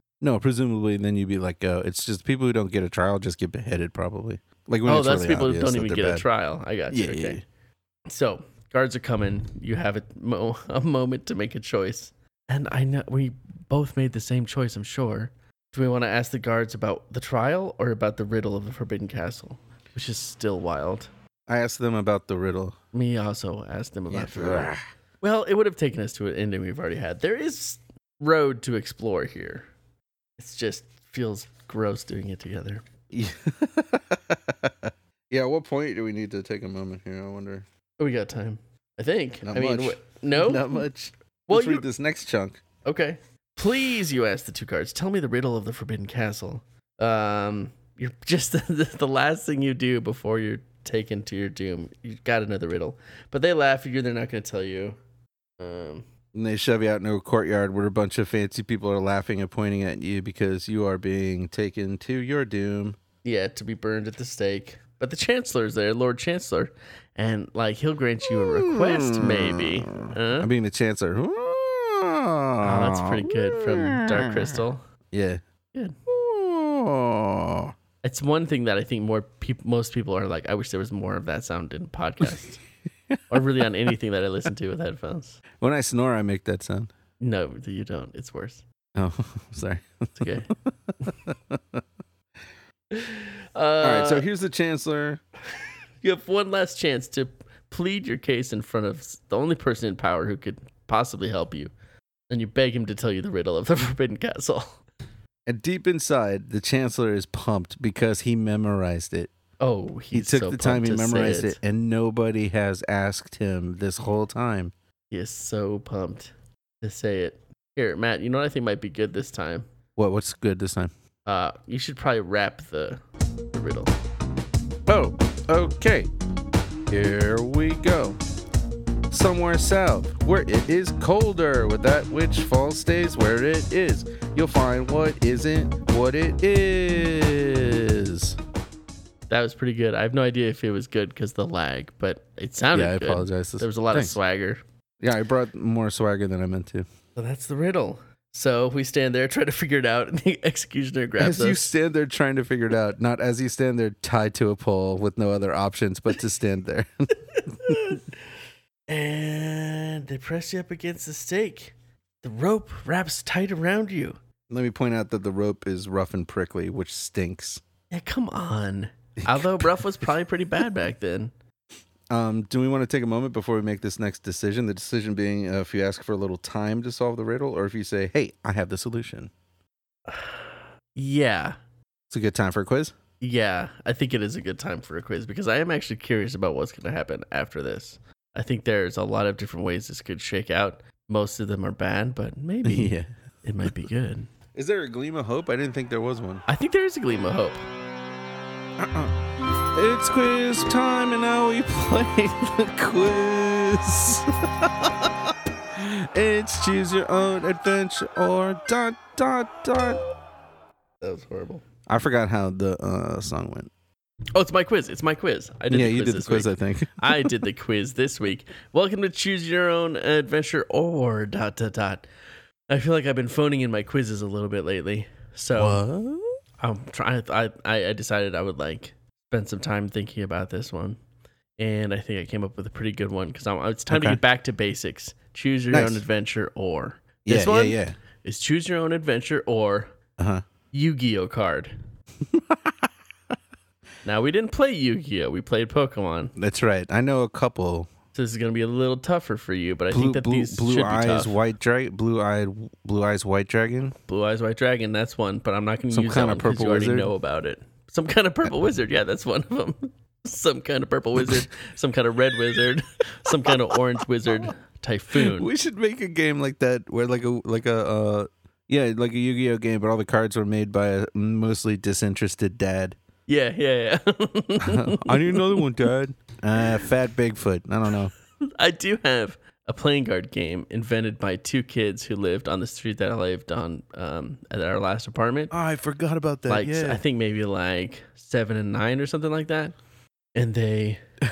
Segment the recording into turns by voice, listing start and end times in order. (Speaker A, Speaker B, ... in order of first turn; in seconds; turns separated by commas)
Speaker A: 0.2-6.2, Speaker B: 4.9-7.4, Speaker A: 6.9-7.4, Speaker B: 8.1-21.1, Speaker A: 21.5-22.8, Speaker B: 22.9-29.7, Speaker A: 24.1-24.8, Speaker B: 30.4-32.8, Speaker A: 33.1-37.6, Speaker B: 38.0-40.8, Speaker A: 39.4-42.6, Speaker B: 41.5-41.9, Speaker B: 42.9-55.0, Speaker B: 55.6-56.0, Speaker A: 56.3-63.0, Speaker B: 63.2-70.5, Speaker A: 68.4-74.6, Speaker B: 72.6-74.8, Speaker A: 75.1-75.4, Speaker A: 76.1-77.7, Speaker B: 78.0-82.6, Speaker B: 83.3-85.4, Speaker A: 85.6-86.9, Speaker B: 87.2-88.6, Speaker A: 89.0-90.3, Speaker B: 90.2-90.5, Speaker A: 91.0-91.8, Speaker B: 92.9-94.2, Speaker A: 93.8-95.2, Speaker B: 96.0-101.7, Speaker B: 102.3-104.8, Speaker A: 105.5-109.3, Speaker B: 109.6-111.6, Speaker A: 110.1-114.7, Speaker B: 115.1-119.7, Speaker A: 120.0-120.9, Speaker B: 121.3-123.0, Speaker B: 123.5-123.9, Speaker A: 124.9-126.1, Speaker A: 126.9-128.2, Speaker A: 129.1-138.4, Speaker B: 139.3-144.6, Speaker A: 142.7-144.2, Speaker A: 145.0-146.9, Speaker B: 147.2-151.7, Speaker A: 151.2-157.9, Speaker B: 157.4-158.2, Speaker B: 158.9-164.2, Speaker A: 164.5-167.6, Speaker B: 167.9-171.3, Speaker A: 169.2-169.8, Speaker A: 172.1-179.3, Speaker B: 180.1-181.6, Speaker A: 182.1-182.9, Speaker B: 183.2-194.3, Speaker A: 192.6-193.1, Speaker A: 194.5-196.4, Speaker B: 196.5-197.6, Speaker A: 198.8-199.2, Speaker A: 199.7-210.0, Speaker B: 211.0-211.6, Speaker A: 211.9-213.7, Speaker B: 214.3-222.1, Speaker A: 215.7-217.3, Speaker B: 222.7-225.8, Speaker A: 225.6-226.4, Speaker B: 226.6-231.0, Speaker B: 231.6-239.9, Speaker A: 233.9-234.2, Speaker A: 235.7-236.0, Speaker A: 237.3-238.0, Speaker A: 240.2-240.4, Speaker B: 240.7-241.8, Speaker A: 242.3-242.9, Speaker B: 244.0-246.3, Speaker A: 246.4-247.9, Speaker B: 248.2-251.4, Speaker A: 249.9-253.9, Speaker B: 254.1-265.5, Speaker A: 255.9-257.1, Speaker A: 261.2-261.4, Speaker A: 263.3-263.5, Speaker A: 265.1-273.0, Speaker B: 273.3-275.6, Speaker A: 274.6-278.1, Speaker B: 278.5-285.5, Speaker A: 285.5-287.0, Speaker B: 286.5-289.8, Speaker B: 290.4-291.0